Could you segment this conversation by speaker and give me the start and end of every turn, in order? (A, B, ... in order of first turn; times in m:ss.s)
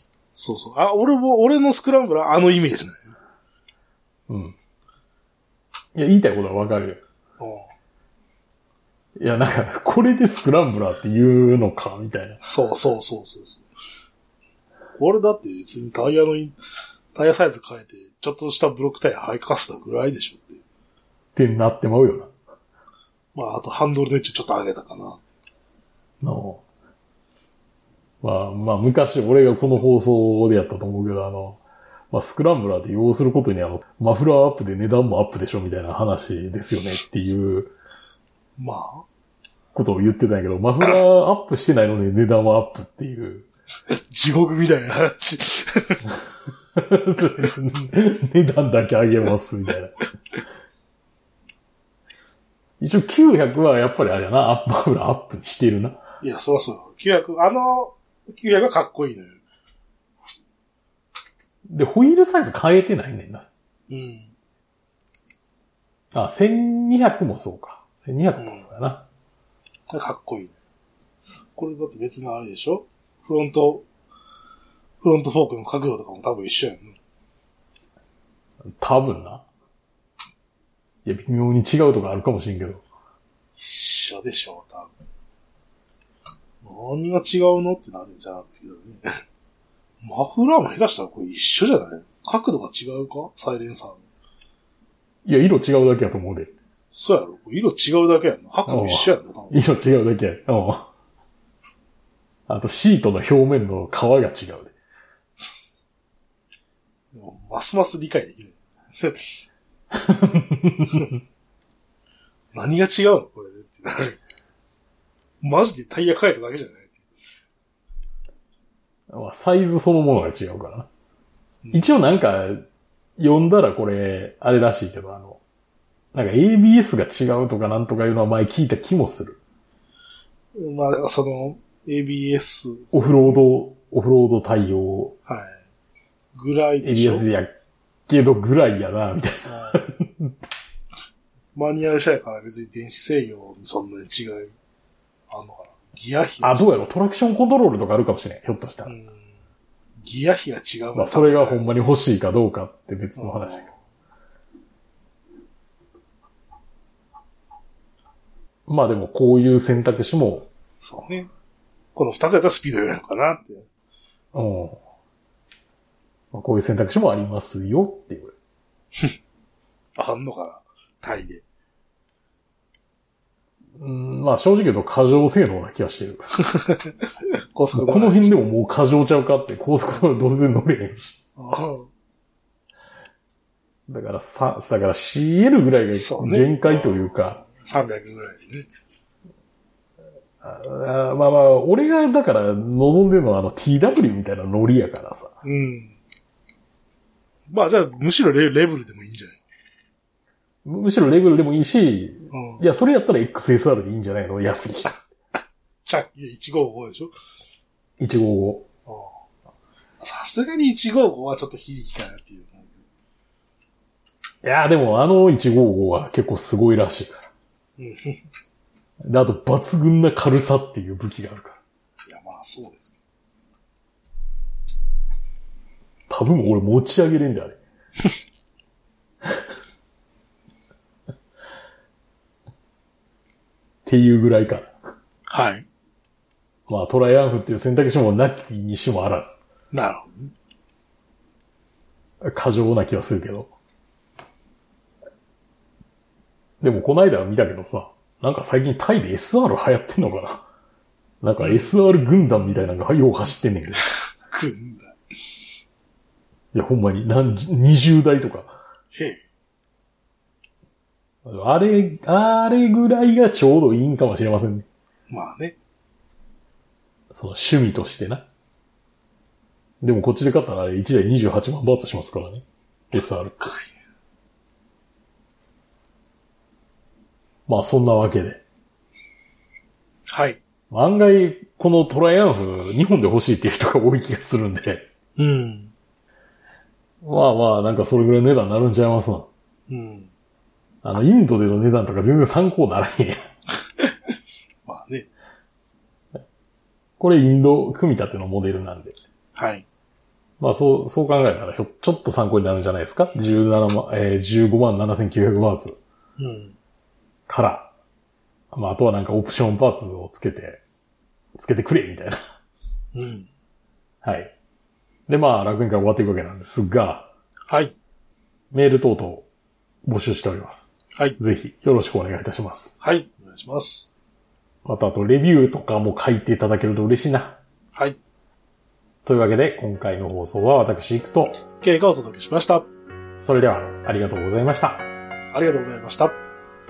0:00.3-0:03.0 A
0:04.3-0:04.6 B
0:05.9-0:07.0 B
0:07.4-0:07.7 A
0:09.2-0:12.4 B
0:12.4-0:13.7 A
0:14.9-0:16.5 A
0:17.1-0:20.6 A
0:21.3-0:22.3 B
0:23.3-0:25.2 A
0:26.2-0:26.6 B
0:28.2-0:31.6 B
0:32.1-0:37.7 B
0:38.6-0:39.1 A
0:39.7-0:43.5 B
0:43.9-0:46.1 A
0:46.7-0:50.0 B
0:52.8-0:56.0 B
0:56.2-0:59.4 A
1:01.7-1:03.5 B
1:03.9-1:04.3 A
1:06.1-1:09.0 B
1:08.4-1:08.6 A
1:09.9-1:10.5 A
1:11.6-1:13.8 A
1:15.0-1:17.0 A
1:18.8-1:19.4 B
1:21.0-1:22.8 B
1:23.6-1:24.9 A
1:26.6-1:29.1 A
1:30.0-1:34.0 A
1:35.2-1:36.5 B
1:36.9-1:39.6 A
1:38.7-1:40.9 B
1:42.5-1:44.7 B
1:47.1-1:49.3 A
1:49.9-1:51.2 B
1:52.5-1:54.2 A
1:55.4-1:57.0 A
1:59.1-2:00.9 B
2:01.6-2:02.0 A
2:01.7-2:02.6 B
2:03.2-2:05.4 B
2:06.1-2:09.4 B
2:10.5-2:13.4 A
2:12.9-2:15.2 B
2:15.3-2:15.6 A
2:16.3-2:17.3 A
2:16.8-2:17.5 B
2:18.1-2:20.3 B
2:19.5-2:19.8 A
2:21.5-2:24.5 A
2:25.3-2:26.7 A
2:26.4-2:28.9 B
2:28.8-2:29.1 A
2:30.0-2:31.7 A
2:30.9-2:33.6 B
2:33.2-2:33.7 A
2:38.7-2:40.5 B
2:40.8-2:41.3 A
2:41.9-2:43.6 A
2:44.3-2:44.8 B
2:46.3-2:48.3 B
2:50.0-2:51.4 A
2:53.8-2:56.3 B
2:56.5-2:58.4 A
2:57.7-3:01.2 B
3:01.4-3:01.9 A
3:03.9-3:07.4 B
3:05.9-3:08.7 A
3:10.4-3:15.4 B
3:15.4-3:15.9 A
3:17.5-3:19.4 A
3:20.6-3:25.0 B
3:22.3-3:22.6 A
3:25.8-3:27.1 A
3:28.0-3:28.7 B
3:28.9-3:29.1 A
3:30.0-3:32.8 A
3:34.4-3:37.2 B
3:37.8-3:38.2 A
3:39.0-3:41.6 B
3:42.1-3:43.0 A
3:46.1-3:47.6 B
3:53.8-3:54.7 B
3:55.3-3:55.6 A
3:56.7-3:59.4 B
3:59.7-4:00.3 A
4:02.2-4:03.5 B
4:06.6-4:10.4 B
4:11.2-4:13.8 B
4:11.4-4:11.8 A
4:14.3-4:14.9 A
4:16.5-4:18.6 B
4:18.9-4:19.2 A
4:21.2-4:24.6 B
4:25.1-4:25.6 A
4:27.1-4:28.2 B
4:29.8-4:33.5 B
4:33.4-4:33.7 A
4:37.5-4:38.4 B
4:40.1-4:40.4 A
4:40.7-4:44.9 B
4:45.2-4:45.7 A
4:47.0-4:49.3 B
4:49.7-4:50.1 A
4:50.8-4:53.2 B
4:54.6-4:55.1 A
4:57.0-4:59.0 B
4:59.3-4:59.6 A
5:00.4-5:05.8 B
5:06.2-5:06.6 A
5:07.3-5:07.7 B
5:08.5-5:10.6 B
5:11.4-5:12.2 B
5:12.9-5:13.3 A
5:14.0-5:14.3 B
5:15.1-5:17.1 B
5:17.5-5:17.7 A
5:18.5-5:19.2 B
5:19.8-5:22.7 B
5:22.8-5:23.9 A
5:24.6-5:27.4 B
5:29.0-5:31.4 B
5:31.6-5:32.7 A
5:33.2-5:34.8 B
5:35.3-5:36.1 A